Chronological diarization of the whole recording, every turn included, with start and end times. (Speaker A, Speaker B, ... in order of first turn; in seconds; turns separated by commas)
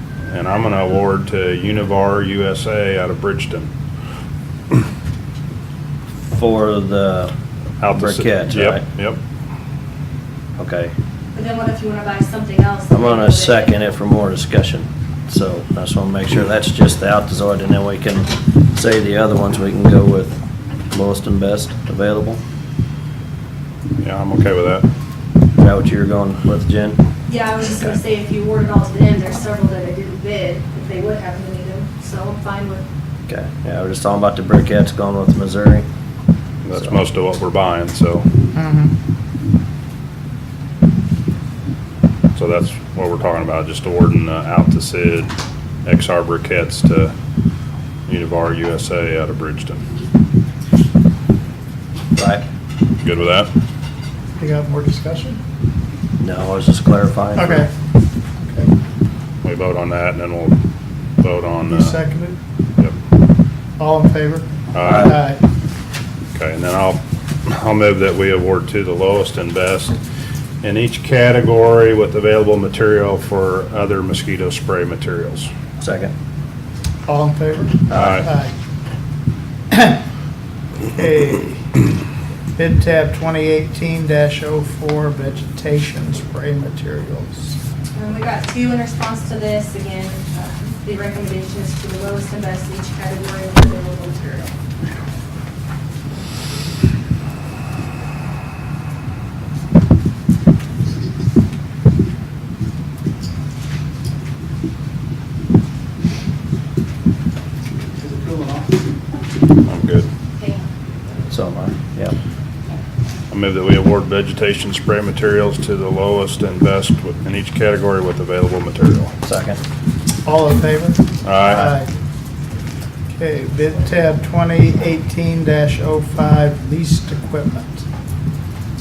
Speaker A: 0.3-3.7, Speaker B: 6.3-7.3, Speaker A: 7.8-9.2, Speaker B: 7.9-8.8, Speaker B: 10.6-10.9, Speaker C: 11.3-13.8, Speaker B: 12.9-22.4, Speaker A: 24.0-24.9, Speaker B: 25.6-27.0, Speaker C: 27.3-32.9, Speaker B: 33.3-35.9, Speaker A: 36.6-38.3, Speaker D: 38.5-38.9, Speaker A: 42.4-45.3, Speaker A: 45.9-47.1, Speaker A: 48.1-49.8, Speaker B: 52.1-52.5, Speaker A: 53.0-53.5, Speaker D: 54.4-55.4, Speaker B: 56.2-57.6, Speaker D: 57.4-57.7, Speaker A: 59.4-60.6, Speaker A: 61.2-62.0, Speaker D: 61.6-62.4, Speaker D: 63.8-65.4, Speaker A: 64.7-65.2, Speaker B: 64.8-65.1, Speaker A: 66.3-70.0, Speaker A: 70.6-75.5, Speaker B: 75.8-76.1, Speaker D: 77.1-78.5, Speaker A: 77.9-78.3, Speaker D: 79.7-80.0, Speaker D: 80.9-81.7, Speaker D: 82.6-87.6, Speaker C: 87.9-94.5, Speaker A: 109.6-110.1, Speaker C: 110.4-110.7, Speaker B: 111.3-112.2, Speaker A: 113.3-119.2, Speaker B: 119.2-119.6, Speaker D: 120.2-121.9, Speaker A: 121.2-121.8, Speaker D: 123.1-127.9